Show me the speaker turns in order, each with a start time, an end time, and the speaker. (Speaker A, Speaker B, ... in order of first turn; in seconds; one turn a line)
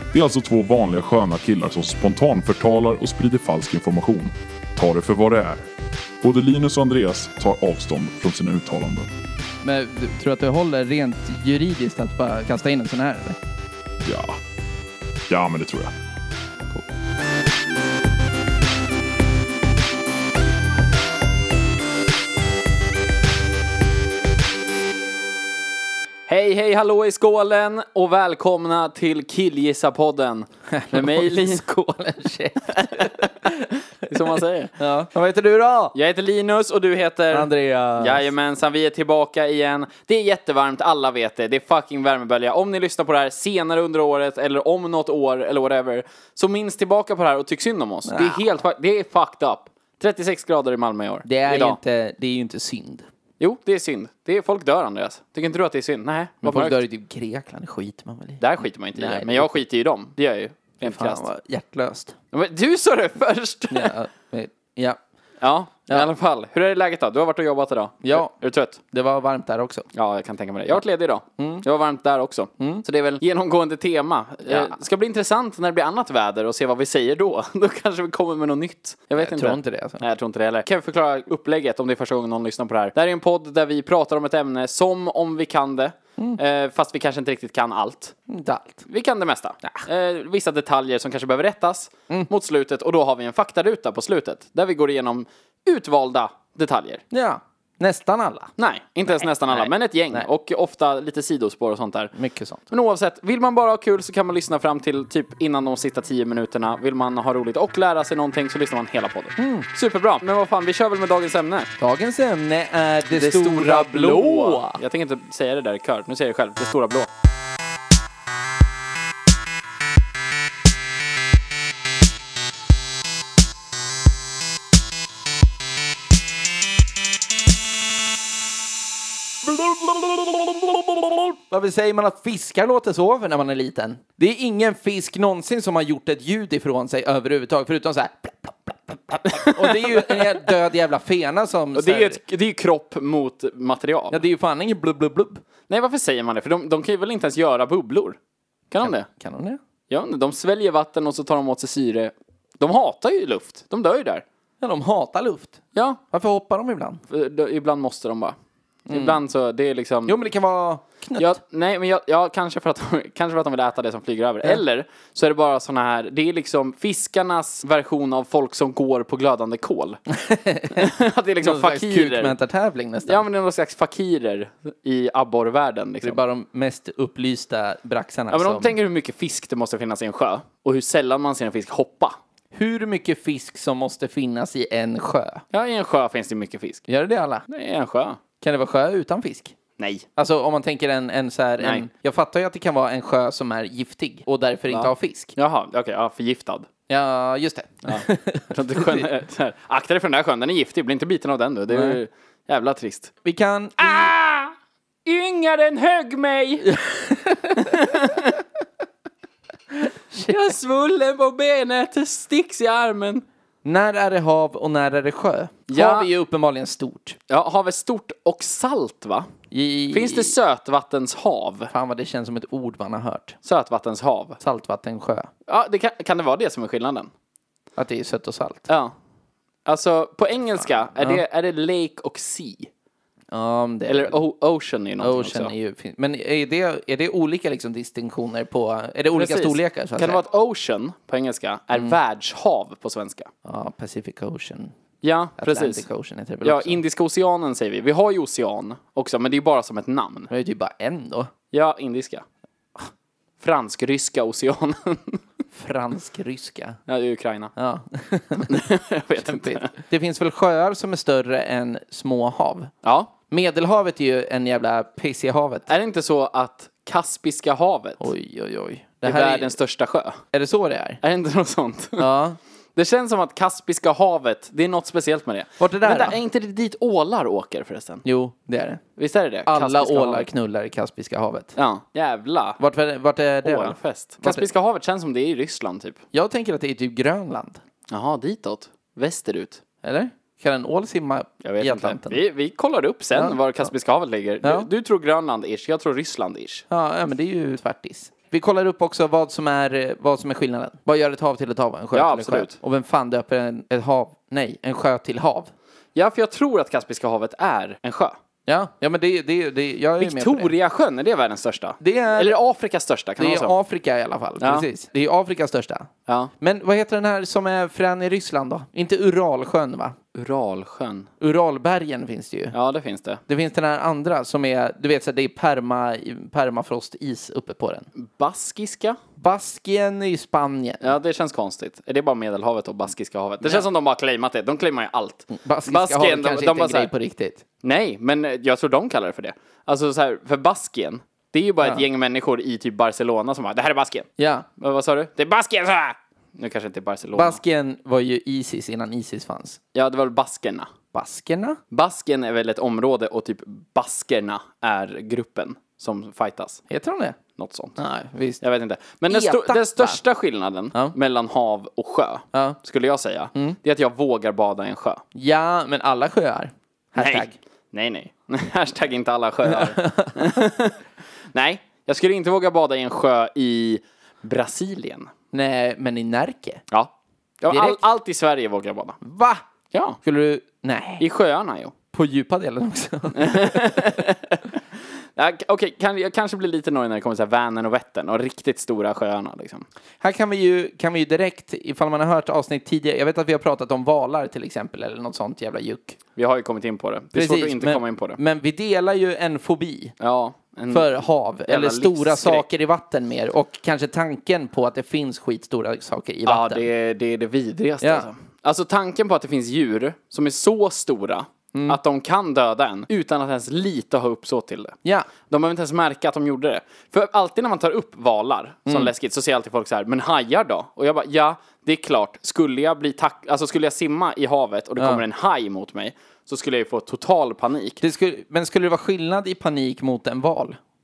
Speaker A: 0.1-5.6
Speaker A: 6.2-9.1
Speaker B: 9.6-13.4
Speaker A: 14.0-14.4
Speaker A: 15.3-15.9
Speaker C: 26.3-31.6
Speaker B: 30.7-35.9
Speaker C: 34.1-34.8
Speaker C: 35.9-51.8
Speaker B: 37.3-38.3
Speaker B: 48.0-48.5
Speaker B: 51.2-53.1
Speaker C: 53.4-56.8
Speaker B: 56.4-58.4
Speaker C: 58.4-61.3
Speaker B: 59.0-59.6
Speaker B: 60.8-62.1
Speaker C: 62.3-63.9
Speaker B: 63.7-65.0
Speaker C: 65.4-68.8
Speaker B: 68.0-69.9
Speaker C: 69.9-88.2
Speaker B: 71.4-71.6
Speaker B: 72.6-72.8
Speaker B: 74.5-74.8
Speaker B: 79.2-80.0
Speaker B: 88.3-88.8
Speaker C: 88.8-97.0
Speaker B: 97.1-98.5
Speaker C: 98.6-102.2
Speaker B: 99.1-100.3
Speaker B: 102.2-102.6
Speaker C: 102.7-111.7
Speaker B: 109.4-109.7
Speaker B: 111.8-114.8
Speaker C: 113.1-117.1
Speaker B: 129.4-142.2
Speaker C: 139.3-140.3
Speaker C: 141.8-144.2
Speaker B: 144.1-145.4
Speaker C: 145.7-148.2
Speaker C: 148.7-149.1
Speaker B: 148.8-149.6
Speaker C: 149.9-154.2
Speaker B: 154.6-155.6
Speaker C: 155.7-156.0
Speaker B: 156.1-157.0
Speaker C: 157.1-158.3
Speaker B: 158.9-159.2
Speaker C: 158.9-160.2
Speaker B: 160.1-161.4
Speaker C: 161.2-170.0
Speaker B: 170.1-173.2
Speaker C: 170.7-172.3
Speaker C: 173.1-176.2
Speaker B: 176.0-178.7
Speaker C: 178.3-182.2
Speaker B: 182.5-185.4
Speaker C: 185.5-186.9
Speaker B: 186.9-187.4
Speaker C: 187.5-188.2
Speaker B: 188.4-189.6
Speaker C: 189.8-190.1
Speaker B: 190.2-195.3
Speaker C: 191.6-191.9
Speaker C: 194.7-196.7
Speaker B: 196.9-199.1
Speaker C: 197.9-203.1
Speaker B: 201.7-202.0
Speaker B: 203.2-204.1
Speaker C: 203.8-204.5
Speaker C: 205.1-208.4
Speaker B: 207.1-208.1
Speaker C: 210.2-213.2
Speaker B: 213.6-217.2
Speaker C: 215.7-216.1
Speaker C: 217.3-219.3
Speaker B: 219.5-220.3
Speaker C: 219.9-221.7
Speaker B: 221.7-223.4
Speaker C: 223.4-224.4
Speaker B: 224.4-225.3
Speaker C: 225.5-227.1
Speaker B: 227.8-228.7
Speaker C: 228.7-228.9
Speaker C: 229.7-232.7
Speaker B: 231.0-231.2
Speaker B: 233.3-234.2
Speaker C: 233.9-235.5
Speaker B: 235.0-240.2
Speaker C: 239.1-243.3
Speaker B: 243.4-244.7
Speaker C: 245.0-245.8
Speaker B: 245.4-246.8
Speaker C: 246.4-250.3
Speaker B: 250.3-251.3
Speaker C: 251.5-252.2
Speaker C: 253.4-255.2
Speaker B: 255.5-256.8
Speaker C: 256.9-257.5
Speaker B: 257.6-258.6
Speaker C: 258.4-259.7
Speaker B: 259.2-262.7
Speaker C: 262.8-263.1
Speaker B: 263.3-265.7
Speaker C: 265.7-268.1
Speaker B: 268.0-269.6
Speaker C: 269.0-270.2
Speaker B: 270.3-271.0
Speaker C: 271.0-272.1
Speaker B: 272.0-272.4
Speaker C: 272.8-278.1
Speaker B: 275.6-276.2
Speaker B: 278.1-278.8
Speaker C: 279.0-280.3
Speaker B: 279.5-281.6
Speaker C: 281.6-282.6
Speaker B: 282.6-284.4
Speaker C: 283.4-286.0
Speaker B: 286.1-287.6
Speaker C: 287.9-289.6
Speaker B: 289.8-292.2
Speaker C: 291.4-296.6
Speaker B: 294.4-294.7
Speaker B: 296.7-305.5
Speaker C: 301.9-302.6
Speaker C: 306.0-308.1
Speaker B: 308.5-310.5
Speaker C: 310.0-313.6
Speaker B: 311.8-312.4
Speaker B: 313.2-315.9
Speaker C: 314.4-314.7
Speaker C: 316.1-316.3
Speaker B: 316.4-320.0
Speaker C: 320.1-321.1
Speaker B: 321.2-322.6
Speaker C: 322.5-323.2
Speaker B: 323.3-327.9
Speaker C: 328.0-329.0
Speaker B: 329.2-330.9
Speaker C: 330.8-336.9
Speaker B: 335.3-337.4
Speaker C: 337.6-347.4
Speaker B: 344.2-344.5
Speaker B: 347.1-349.6
Speaker C: 349.7-350.7
Speaker B: 350.9-351.6
Speaker C: 351.7-356.6
Speaker B: 356.7-357.2
Speaker C: 357.4-357.8
Speaker B: 357.8-358.4
Speaker C: 358.4-365.0
Speaker B: 359.1-360.0
Speaker B: 365.1-367.4
Speaker C: 367.0-370.8
Speaker B: 369.4-370.4
Speaker C: 371.3-375.1
Speaker B: 375.3-376.6
Speaker C: 376.7-379.0
Speaker B: 377.5-377.8
Speaker B: 379.0-379.4
Speaker C: 379.7-380.0
Speaker B: 380.0-381.1
Speaker C: 381.0-381.8
Speaker B: 381.9-384.0
Speaker C: 383.1-384.6
Speaker C: 385.2-389.7
Speaker B: 390.0-396.0
Speaker C: 396.1-398.2
Speaker B: 397.1-400.0
Speaker C: 400.0-400.9
Speaker B: 400.7-406.7
Speaker C: 401.5-402.4
Speaker C: 406.3-414.8
Speaker B: 407.8-408.1
Speaker B: 411.5-411.8
Speaker B: 414.9-415.1
Speaker C: 415.3-427.8
Speaker B: 424.8-425.0
Speaker B: 427.8-430.6